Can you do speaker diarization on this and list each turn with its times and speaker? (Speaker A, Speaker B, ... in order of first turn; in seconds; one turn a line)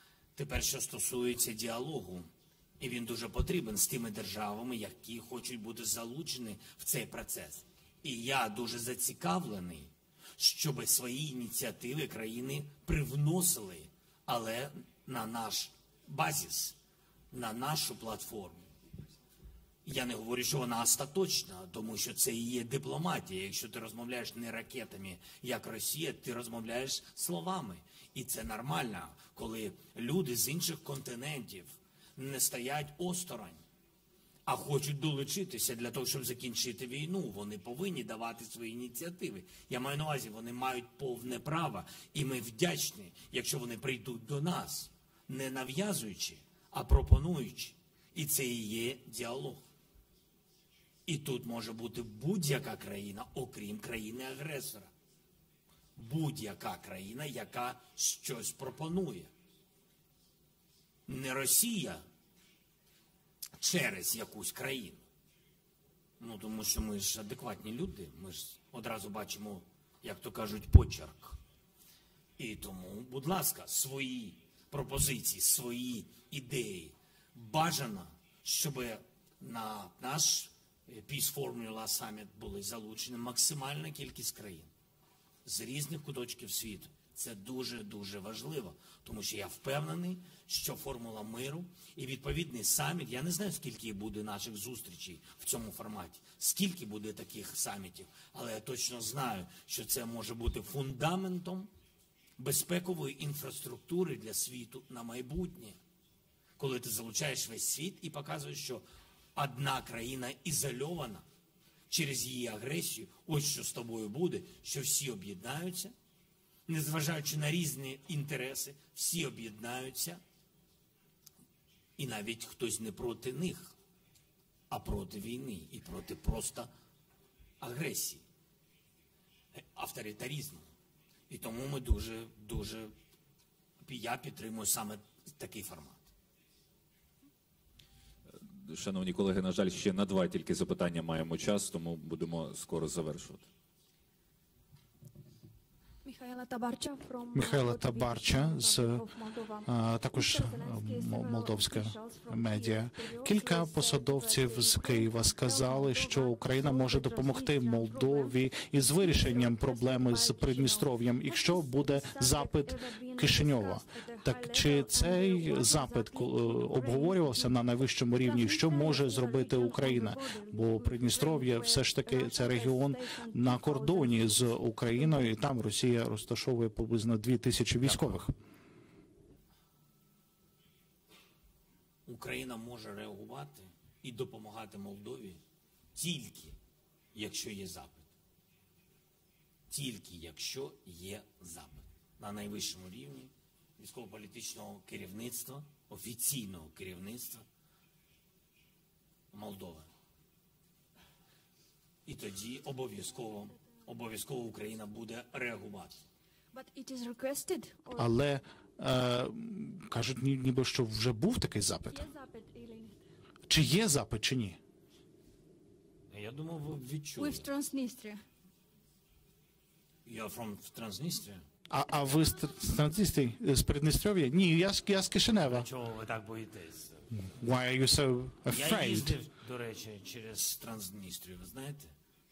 Speaker A: 0.3-16.8
Speaker A: 17.3-18.6
Speaker A: 19.8-33.6
Speaker A: 34.5-49.6
Speaker A: 51.0-54.9
Speaker A: 56.0-59.3
Speaker A: 61.1-62.0
Speaker A: 63.6-65.0
Speaker A: 66.2-71.4
Speaker A: 72.4-84.7
Speaker A: 85.4-101.7
Speaker A: 102.4-105.8
Speaker A: 106.6-111.2
Speaker A: 111.9-115.9
Speaker A: 116.7-120.2
Speaker A: 122.0-123.8
Speaker A: 124.7-126.7
Speaker A: 127.6-128.2
Speaker A: 129.5-130.7
Speaker A: 131.3-132.9
Speaker A: 133.8-136.1
Speaker B: 138.3-143.5
Speaker C: 146.0-167.6
Speaker D: 147.3-178.3
Speaker C: 168.1-175.3
Speaker A: 177.8-178.2
Speaker A: 182.1-185.4
Speaker A: 185.9-186.6
Speaker A: 187.1-188.1
Speaker A: 189.7-197.4
Speaker A: 199.3-199.9
Speaker A: 202.1-206.1
Speaker C: 206.5-208.1
Speaker D: 207.9-212.1
Speaker C: 211.9-213.0
Speaker D: 213.5-214.6
Speaker A: 216.1-217.5
Speaker C: 217.2-218.2
Speaker A: 220.0-221.4
Speaker D: 221.7-225.7
Speaker A: 225.3-227.1
Speaker D: 227.2-229.2
Speaker A: 228.5-231.9